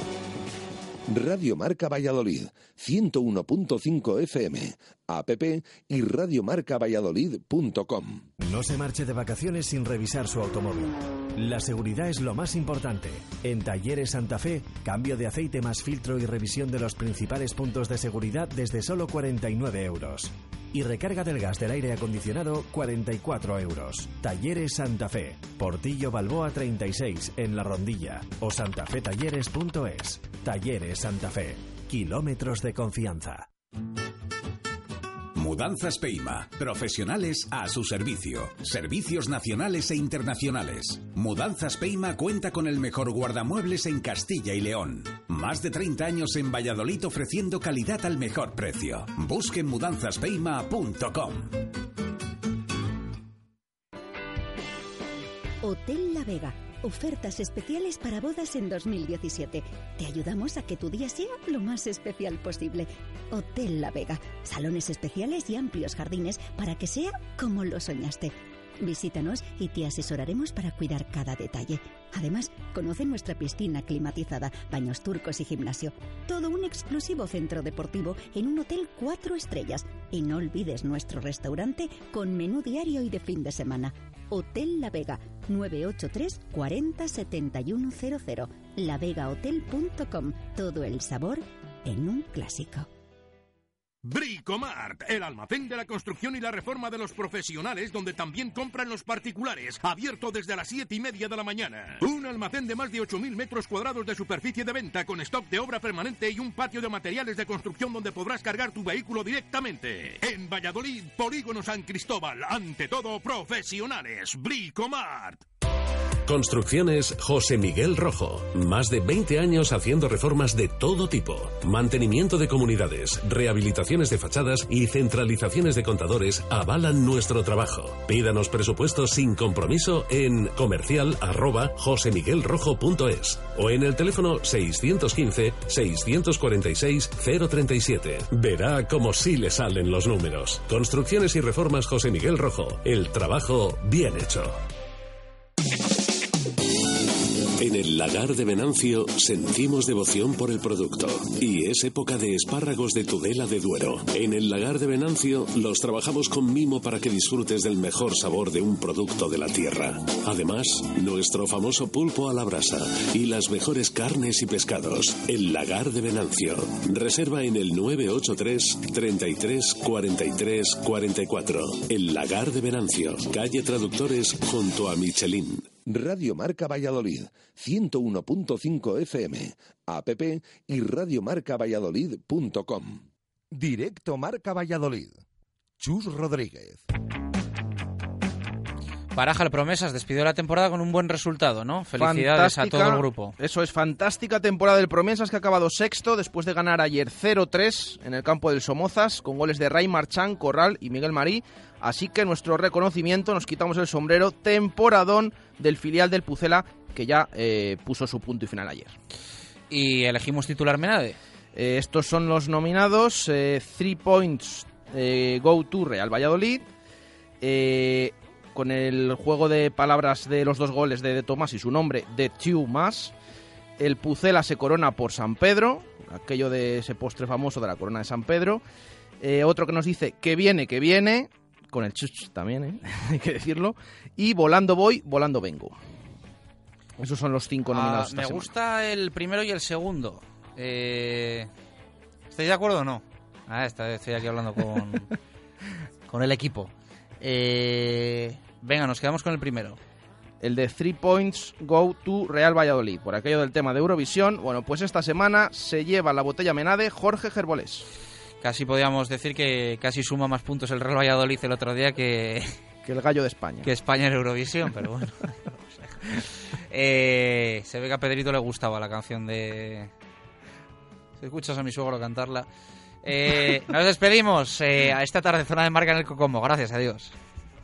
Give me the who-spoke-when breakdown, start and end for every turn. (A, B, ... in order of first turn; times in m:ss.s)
0:01.1-0:08.2 A
0:08.4-0:33.5 B
0:35.4-0:51.4 C
0:55.6-1:32.9 D
1:34.0-1:55.4 E
1:56.3-2:24.6 F
2:27.6-2:55.7 F
2:55.9-3:05.2 A
3:05.8-3:06.8 A
3:09.2-3:13.4 G
3:12.0-3:29.0 H
3:29.7-3:31.2 G
3:31.6-3:36.6 H
3:37.4-3:43.1 H
3:43.8-3:48.6 H
3:49.2-3:55.8 H
3:57.0-3:58.5 H
3:57.7-4:01.5 G
4:02.3-4:05.1 G
4:06.1-4:09.8 G
4:10.4-4:17.8 H
4:18.4-4:22.6 G
4:22.8-4:23.7 H
4:23.6-4:29.9 G
4:31.2-4:32.5 G
4:33.0-4:37.1 G